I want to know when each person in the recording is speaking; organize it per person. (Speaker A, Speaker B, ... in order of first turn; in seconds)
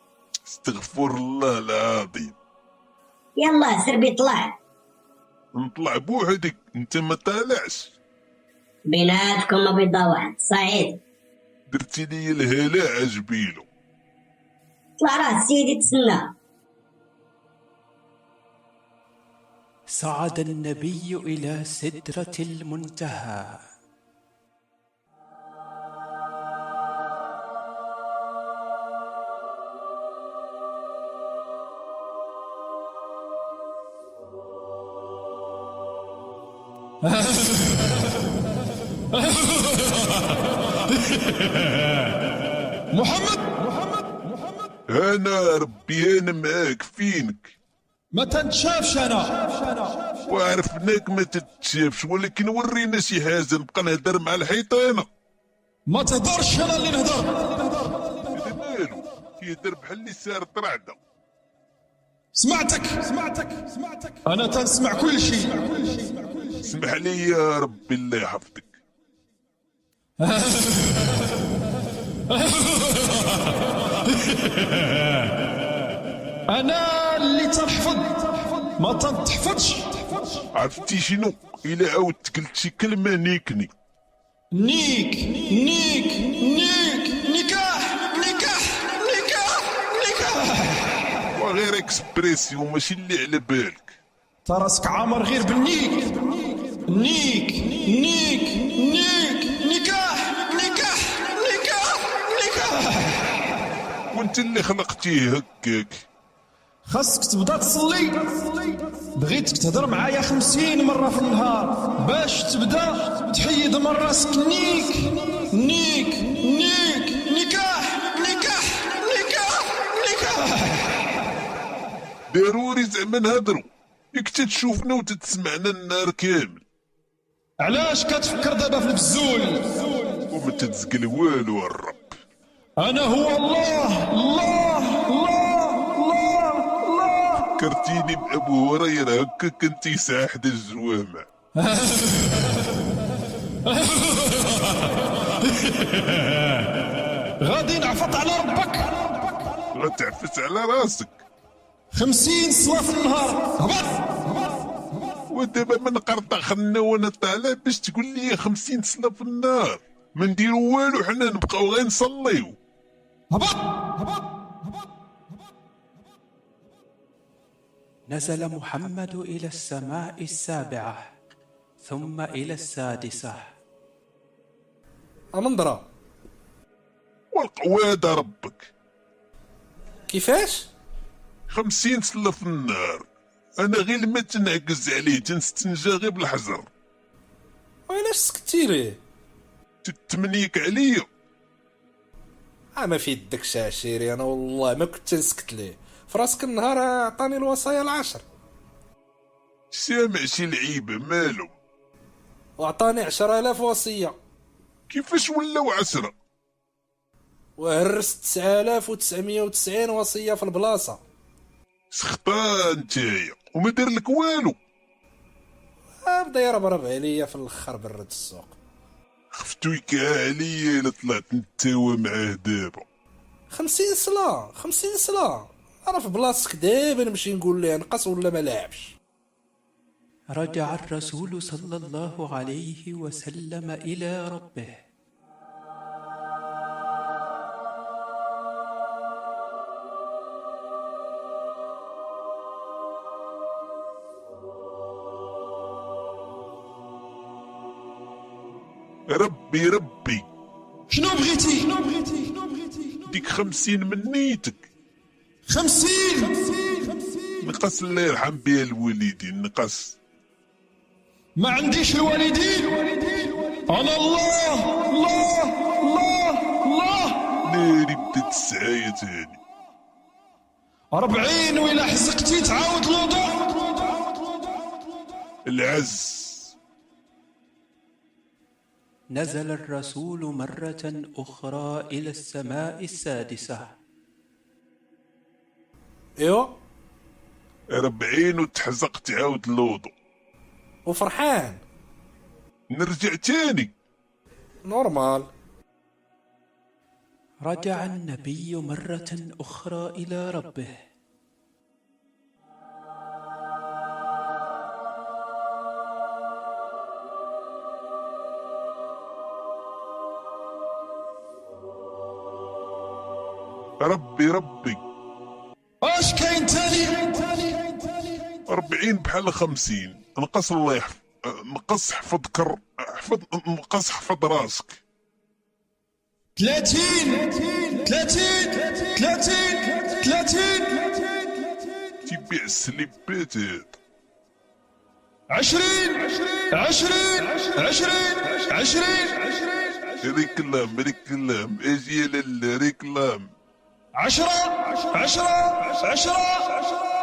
Speaker A: 0.5-2.4, 5.5-8.0, 11.7-13.7, 44.9-47.5, 50.3-55.1, 58.3-61.0, 66.6-68.8, 80.5-83.7, 91.4-94.0, 104.1-106.1, 122.3-126.6, 130.3-132.2, 137.6-141.3, 149.7-151.1, 155.3-162.6, 177.3-178.7, 181.5-183.1, 183.6-186.7, 189.8-191.1, 199.7-201.5, 204.9-206.1, 211.9-214.6, 219.3-222.9, 249.1-250.3, 253.1-254.7, 257.4-260.0, 267.4-269.4, 275.5-276.5, 287.7-289.9, 292.7-293.7, 313.8-314.8, 318.5-324.8, 332.1-333.8, 340.0-343.3
Speaker B: 3.4-4.6, 8.9-11.0, 15.0-16.3
Speaker C: 19.9-23.6, 168.1-171.0, 171.8-173.5, 230.3-234.8, 279.1-283.7, 297.4-300.7
Speaker D: 37.0-37.9, 39.1-40.3, 41.1-41.6, 42.9-44.4, 48.1-50.1, 55.9-58.0, 62.3-66.5, 70.2-71.2, 72.3-73.2, 74.3-74.7, 76.5-80.4, 84.5-91.0, 94.5-103.3, 106.8-121.0, 127.6-129.9, 132.8-137.6, 141.6-142.7, 143.7-144.9, 145.4-146.5, 147.4-149.1, 151.9-154.2, 163.3-163.9, 250.9-253.0, 255.5-257.2, 261.4-267.3, 270.9-274.1, 315.8-318.2, 326.4-331.4, 335.3-339.9, 344.0-346.8
Speaker E: 175.4-175.9, 180.1-180.7, 187.9-189.0, 192.8-198.2, 202.6-204.2, 207.6-211.0, 216.0-218.6, 223.5-228.9, 286.2-286.6, 290.9-291.6, 294.7-295.3